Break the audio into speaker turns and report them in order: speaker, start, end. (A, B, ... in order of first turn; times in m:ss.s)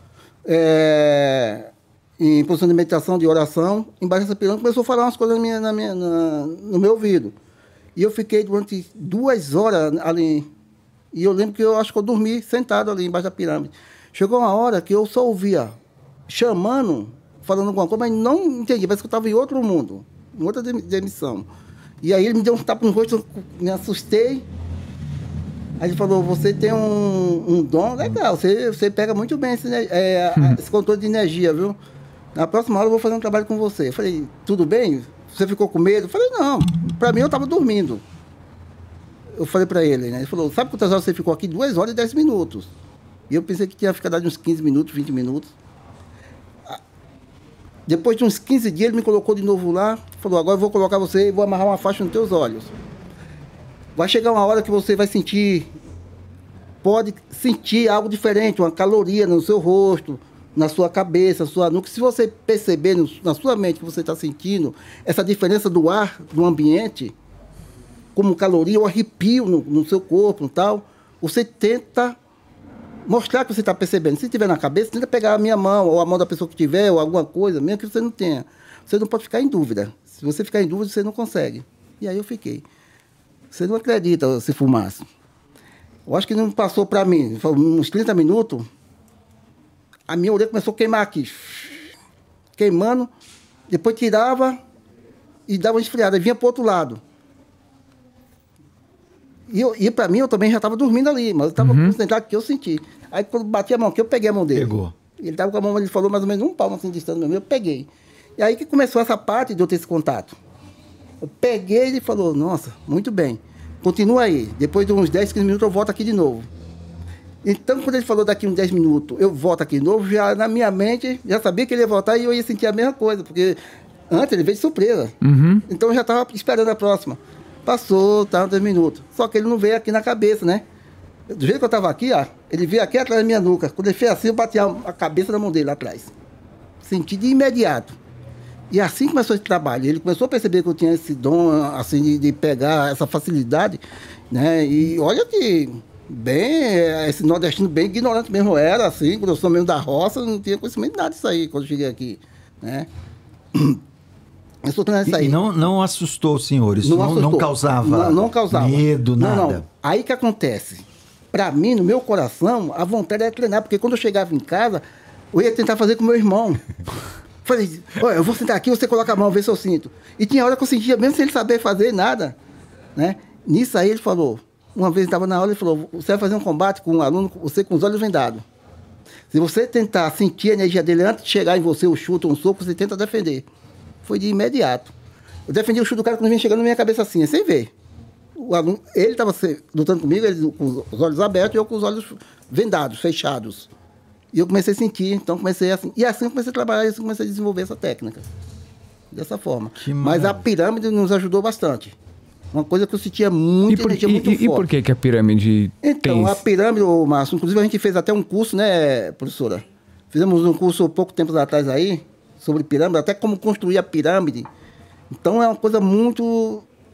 0:00.4-0:07.4 A
0:08.0-0:10.5 A
0:11.1-0:15.8 A
0:16.3-0:21.5 A
0:22.0-0:24.5 A
0:25.8-0:31.8 A
0:32.4-0:38.0 A
0:39.4-0:42.7 A
0:43.3-0:45.6 A
0:47.9-0:52.7 A
0:54.0-0:55.7 A
0:56.8-1:07.2 A
1:08.2-1:12.2 A
1:13.1-1:22.6 A
1:23.5-1:25.0 A
1:26.1-1:28.7 A
1:30.1-1:31.9 A
1:32.6-1:33.1 A
1:33.7-1:34.6 A
1:35.5-1:37.0 A
1:39.5-1:50.4 A
1:41.6-1:42.0 B
1:44.5-1:45.0 C
1:51.2-1:56.5 A
1:57.4-2:03.6 A
2:04.1-2:05.2 A
2:05.2-2:05.7 B
2:05.7-2:10.6 A
2:11.3-2:16.1 A
2:16.8-2:18.0 A
2:18.7-2:32.9 A
2:33.5-2:33.8 A
2:34.6-2:35.4 A
2:35.0-2:39.6 C
2:36.8-2:46.6 A
2:47.4-2:52.4 A
2:53.0-2:58.4 A
2:59.3-3:03.5 A
3:04.0-3:04.9 A
3:05.5-3:07.7 A
3:08.4-3:13.7 A
3:14.3-3:18.3 A
3:19.1-3:22.0 A
3:19.8-3:20.4 C
3:22.5-3:24.7 A
3:23.7-3:26.4 B
3:25.8-3:34.5 A
3:35.1-3:36.6 A